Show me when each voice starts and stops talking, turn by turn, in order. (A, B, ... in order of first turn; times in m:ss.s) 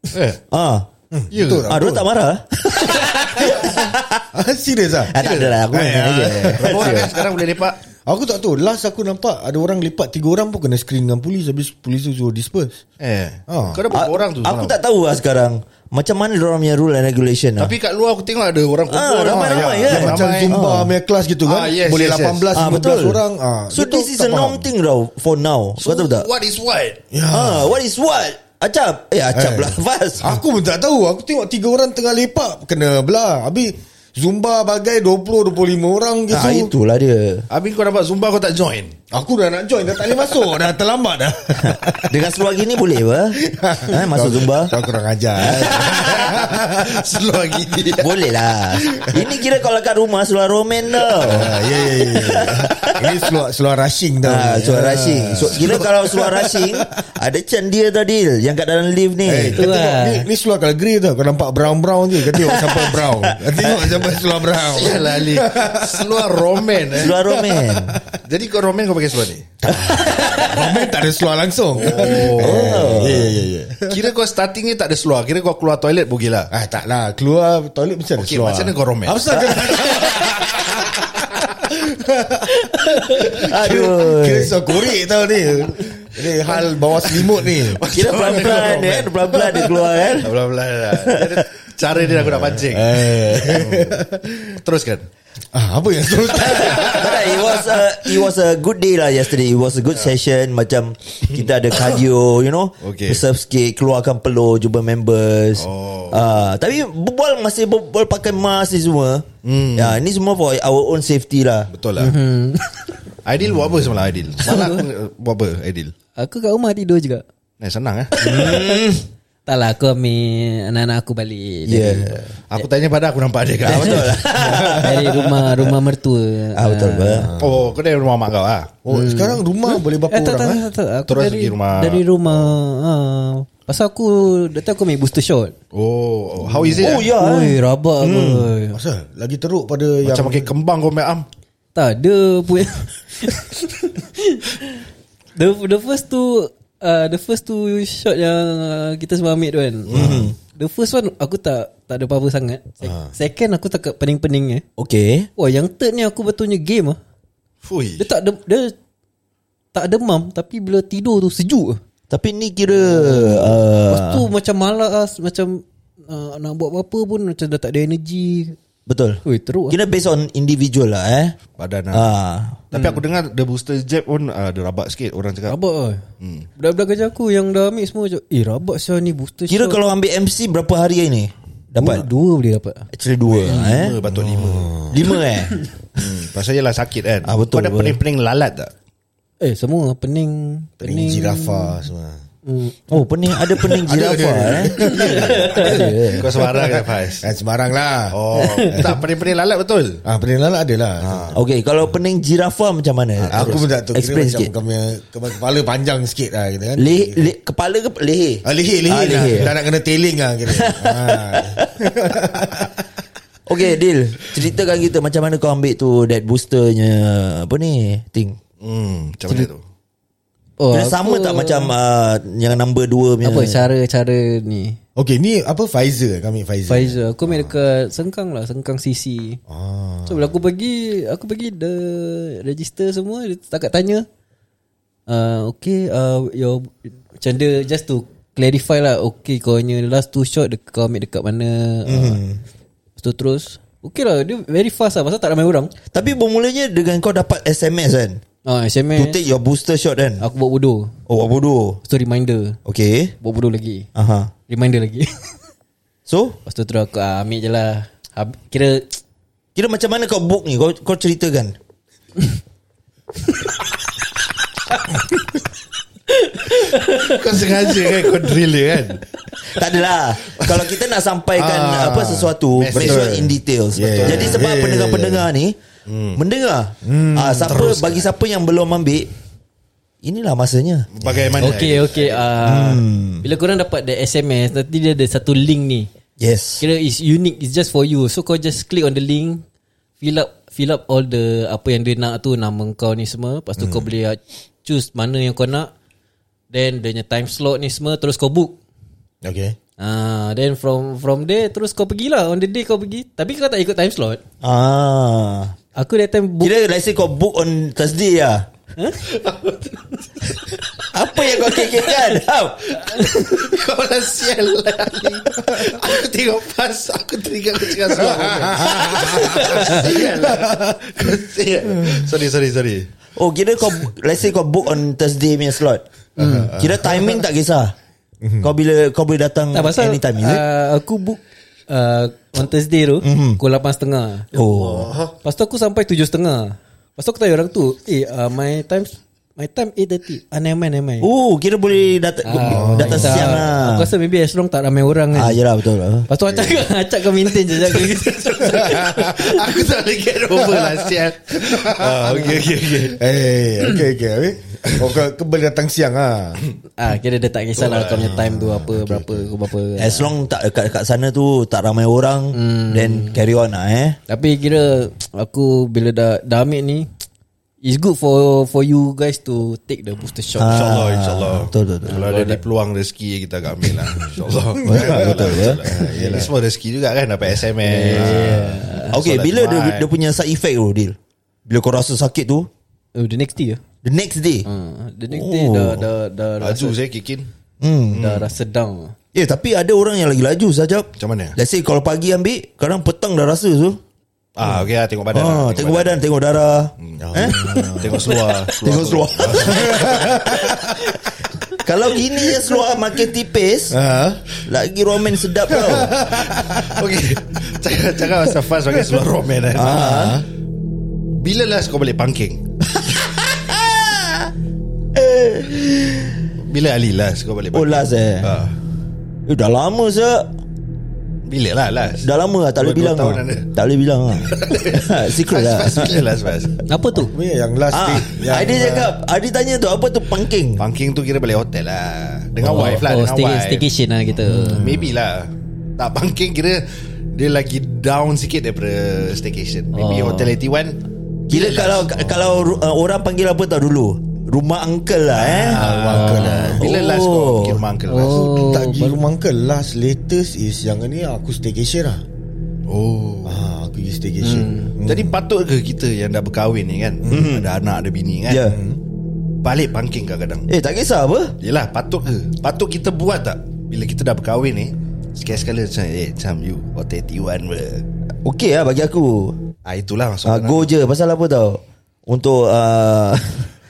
0:00.1-0:00.4 A
0:00.5-0:00.9 B
0:01.1-0:02.1 C
0:01.3-0:01.8 A
0:01.7-0:04.3 B
0:02.9-0:03.8 C
0:04.3-0:07.3 C
0:05.1-0:07.2 B
0:05.2-0:05.6 A
0:06.6-0:07.8 A
0:08.1-0:12.8 C
0:13.0-0:14.8 A
0:13.5-0:13.8 C
0:13.9-0:17.7 B
0:17.6-0:20.6 A
0:18.9-0:20.9 B
0:19.3-0:24.7 C
0:21.4-0:22.5 A
0:22.5-0:26.3 B
0:25.8-0:27.0 A
0:27.1-0:27.8 C
0:27.3-0:30.4 B
0:29.3-0:36.7 C
0:36.3-0:37.5 B
0:37.5-0:39.0 A
0:39.1-0:42.2 C
0:41.6-0:44.8 B
0:43.4-0:47.0 C
0:45.4-0:48.2 A
0:45.4-0:46.1 B
0:48.0-0:53.2 B
0:51.2-0:56.9 C
0:51.2-0:51.9 A
0:54.2-0:59.7 B
0:59.2-1:08.2 C
0:59.6-1:00.3 D
1:02.3-1:04.0 B
1:04.5-1:07.2 A
1:06.9-1:08.0 B
1:08.2-1:09.5 A
1:09.6-1:14.1 C
1:09.7-1:10.9 B
1:11.8-1:12.9 A
1:12.0-1:13.4 B
1:13.8-1:16.5 A
1:16.5-1:30.2 C
1:18.2-1:20.6 A
1:23.2-1:24.6 B
1:26.4-1:29.1 A
1:27.9-1:30.4 B
1:30.2-1:35.0 A
1:30.9-1:31.4 B
1:32.0-1:34.4 C
1:35.5-1:38.2 C
1:36.4-1:51.7 B
1:36.7-1:37.2 A
1:42.8-1:43.2 A
1:45.6-1:46.2 A
1:49.4-1:50.0 A
1:51.7-1:52.2 A
1:52.0-1:52.9 D
1:53.2-1:55.9 A
1:54.4-1:54.9 D
1:56.2-1:57.2 D
1:57.6-1:58.2 A
1:58.2-1:58.9 D
1:58.2-1:59.0 B
1:59.5-2:02.6 D
2:01.7-2:02.3 B
2:02.5-2:04.6 A
2:03.6-2:05.7 B
2:03.8-2:07.3 D
2:04.4-2:05.0 C
2:06.6-2:07.3 B
2:07.2-2:07.7 C
2:07.4-2:08.7 A
2:08.8-2:10.7 C
2:08.9-2:15.6 D
2:11.1-2:12.5 A
2:15.7-2:17.1 A
2:16.5-2:18.8 D
2:16.8-2:18.5 B
2:18.7-2:20.5 C
2:20.0-2:21.2 A
2:21.8-2:24.8 D
2:25.4-2:34.6 D
2:29.9-2:30.2 A
2:29.9-2:30.4 B
2:30.0-2:30.3 C
2:32.8-2:33.1 C
2:34.8-2:35.3 B
2:35.4-2:37.0 D
2:37.6-2:38.1 A
2:38.0-2:38.8 D
2:39.7-2:41.8 D
2:42.1-2:44.3 B
2:42.8-2:48.6 D
2:48.9-2:51.4 B
2:49.2-2:49.8 D
2:51.6-2:52.1 A
2:51.9-2:52.6 B
2:52.7-2:55.6 A
2:52.7-2:53.0 D
2:55.5-2:56.0 D
2:56.2-2:56.5 A
2:56.6-2:59.8 D
2:59.5-3:02.1 B
3:01.8-3:02.9 D
3:02.9-3:04.0 B
3:03.3-3:04.7 A
3:03.5-3:03.8 D
3:04.1-3:05.2 C
3:04.9-3:05.7 B
3:06.0-3:08.7 A
3:07.2-3:08.0 B
3:09.4-3:11.8 D
3:10.8-3:12.2 C
3:12.4-3:12.8 D
3:12.9-3:16.4 B
3:13.5-3:19.0 C
3:14.9-3:16.0 D
3:15.0-3:15.5 A
3:16.2-3:17.3 A
3:18.1-3:20.0 A
3:18.4-3:18.8 D
3:20.0-3:21.4 C
3:21.0-3:21.4 A
3:21.3-3:24.5 B
3:23.2-3:23.6 A
3:23.2-3:27.3 C
3:26.8-3:29.6 B
3:28.4-3:32.8 C
3:30.5-3:32.1 B
3:33.5-3:38.4 B
3:38.6-3:39.6 A
3:40.6-3:41.7 D
3:40.7-3:43.7 B
3:43.2-3:44.8 D
3:45.0-3:47.5 C
3:46.7-3:49.4 D
3:49.5-3:50.3 C
3:50.1-3:54.1 D
3:55.1-4:02.2 D
4:01.9-4:02.4 B
4:03.0-4:05.7 D
4:05.9-4:08.2 B
4:08.4-4:09.2 D
4:09.0-4:10.2 B
4:10.2-4:10.9 D
4:11.1-4:11.8 B
4:11.8-4:12.6 D
4:12.6-4:13.1 B
4:13.2-4:13.9 D
4:14.0-4:14.3 B
4:14.5-4:15.3 D
4:16.1-4:16.4 B
4:16.4-4:19.0 D
4:19.6-4:21.6 B
4:26.1-4:27.2 D
4:26.8-4:29.0 A
4:29.4-4:35.6 B
4:31.4-4:35.3 C
4:32.5-4:33.3 A
4:33.8-4:34.5 A
4:35.9-4:36.2 A
4:36.2-4:39.1 B
4:36.8-4:37.7 C
4:37.4-4:38.1 A
4:40.0-4:41.5 B
4:40.9-4:42.3 A
4:41.4-4:45.9 D
4:42.4-4:43.2 B
4:46.2-4:46.6 B
4:46.6-4:49.4 D
4:50.0-4:55.7 D
4:53.6-4:53.9 C
4:56.5-4:58.6 D
4:59.2-4:59.6 C
4:59.8-5:04.2 D
5:04.4-5:05.6 B
5:05.8-5:06.5 D
5:06.4-5:08.5 B
5:08.8-5:09.0 D
5:09.0-5:09.7 A
5:10.9-5:13.1 B
5:11.3-5:11.7 D
5:12.7-5:22.9 A
5:17.9-5:20.8 C
5:19.2-5:19.8 D
5:21.8-5:22.1 C
5:23.2-5:25.8 B
5:26.2-5:26.5 D
5:26.2-5:27.2 C
5:26.6-5:27.7 B
5:28.2-5:28.5 C
5:28.4-5:30.4 B
5:29.5-5:41.1 D
5:33.0-5:33.4 B
5:34.3-5:35.0 B
5:34.8-5:35.1 C
5:41.0-5:43.9 B
5:42.2-5:45.4 D
5:42.5-5:43.4 C
5:45.1-5:46.1 B
5:46.1-5:49.6 D
5:46.3-5:46.7 C
5:48.4-5:49.1 C
5:48.8-5:53.2 A
5:51.5-5:51.9 C
5:52.0-5:52.5 D
5:52.8-5:56.4 C
5:56.8-6:00.1 D
5:57.6-5:58.1 A
5:58.0-5:59.3 C
5:59.8-6:04.0 B
6:02.3-6:03.2 D
6:04.1-6:06.9 D
6:07.6-6:10.7 D
6:10.4-6:11.9 B
6:10.4-6:19.9 A
6:11.9-6:12.4 D
6:14.6-6:15.8 B
6:14.6-6:16.2 C
6:15.7-6:16.3 D
6:17.6-6:19.0 D
6:18.0-6:22.5 B
6:23.0-6:23.6 D
6:23.8-6:24.5 B
6:24.5-6:26.8 D
6:25.1-6:25.8 B
6:26.4-6:27.3 A
6:27.6-6:28.0 B
6:27.9-6:28.3 A
6:28.0-6:29.0 D
6:29.1-6:33.8 B
6:31.0-6:31.4 A
6:34.4-6:36.0 A
6:35.1-6:40.8 B
6:36.8-6:40.2 A
6:37.0-6:38.3 C
6:39.3-6:41.0 C
6:41.6-6:43.8 B
6:43.7-6:44.3 C
6:44.5-6:46.0 B
6:45.5-6:46.9 C
6:46.1-6:50.2 A
6:49.5-6:50.2 B
6:49.6-6:50.3 C
6:51.1-6:52.4 A
6:53.1-6:54.3 B
6:54.9-6:56.3 B
6:56.4-6:58.6 A
6:57.5-6:58.4 B
6:59.3-7:00.3 B
7:01.3-7:03.5 A
7:02.0-7:06.0 B
7:04.2-7:06.6 A
7:06.7-7:07.1 D
7:07.0-7:08.9 C
7:07.7-7:10.6 B
7:10.6-7:13.7 A
7:12.4-7:14.6 D
7:14.4-7:14.9 C
7:14.4-7:22.6 A
7:19.8-7:20.4 D
7:21.3-7:27.7 B
7:25.1-7:28.3 A
7:25.6-7:26.7 C
7:27.9-7:29.0 D
7:28.0-7:32.0 C
7:32.7-7:33.5 A
7:33.2-7:35.2 C
7:34.2-7:34.7 D
7:34.8-7:38.5 A
7:37.1-7:37.5 B
7:38.3-7:38.6 B
7:38.5-7:38.8 C
7:39.4-7:40.5 A
7:40.5-7:41.4 B
7:41.4-7:47.8 A
7:48.2-7:49.4 B
7:49.6-7:50.7 A
7:50.2-7:53.5 B